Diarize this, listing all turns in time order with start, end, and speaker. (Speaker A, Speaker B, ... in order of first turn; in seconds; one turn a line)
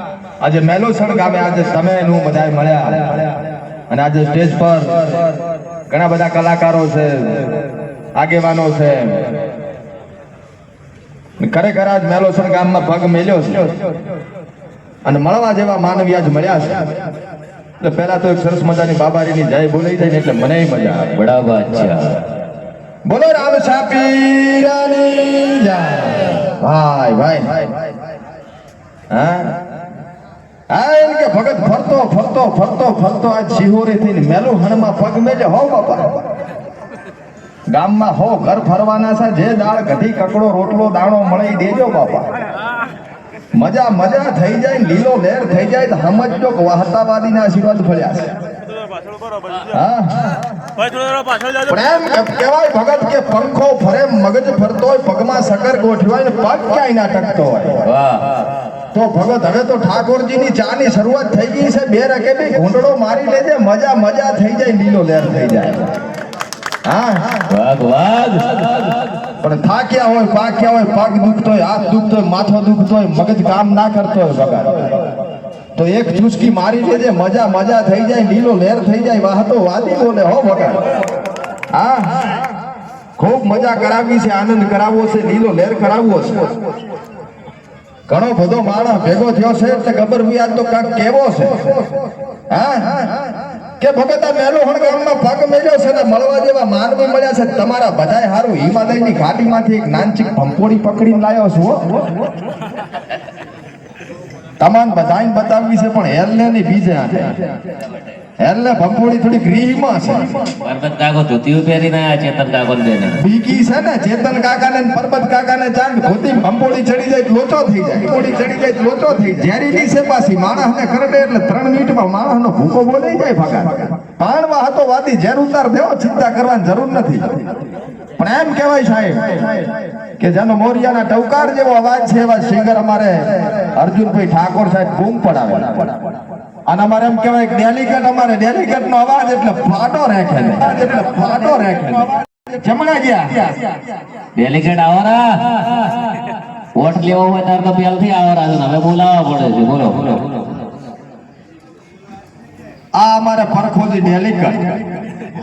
Speaker A: 0.4-3.3
Speaker A: 3.9-5.0
Speaker A: 5.9-7.6
Speaker A: 8.2-9.3
Speaker A: 11.4-13.7
Speaker A: 15.1-16.9
Speaker A: 17.8-21.2
Speaker B: 21.2-22.2
Speaker A: 23.1-27.7
Speaker A: 29.1-29.5
Speaker A: 30.7-36.2
Speaker A: 37.7-42.3
Speaker A: 43.5-48.3
Speaker A: 49.7-50.2
Speaker A: 51.6-57.8
Speaker B: 57.8-58.4
Speaker A: 58.9-65.9
Speaker A: 66.8-67.4
Speaker B: 67.5-69.0
Speaker A: 69.4-75.0
Speaker A: 75.8-80.8
Speaker A: 81.7-82.2
Speaker A: 83.2-86.5
Speaker A: 88.1-91.7
Speaker A: 92.5-93.3
Speaker A: 93.8-102.0
Speaker A: 104.6-107.4
Speaker A: 108.4-110.3
Speaker B: 110.6-113.2
Speaker A: 113.2-127.3
Speaker A: 128.2-129.6
Speaker A: 130.2-136.0
Speaker A: 136.7-143.3
Speaker B: 144.4-145.9
Speaker B: 146.8-150.4
Speaker A: 152.9-154.8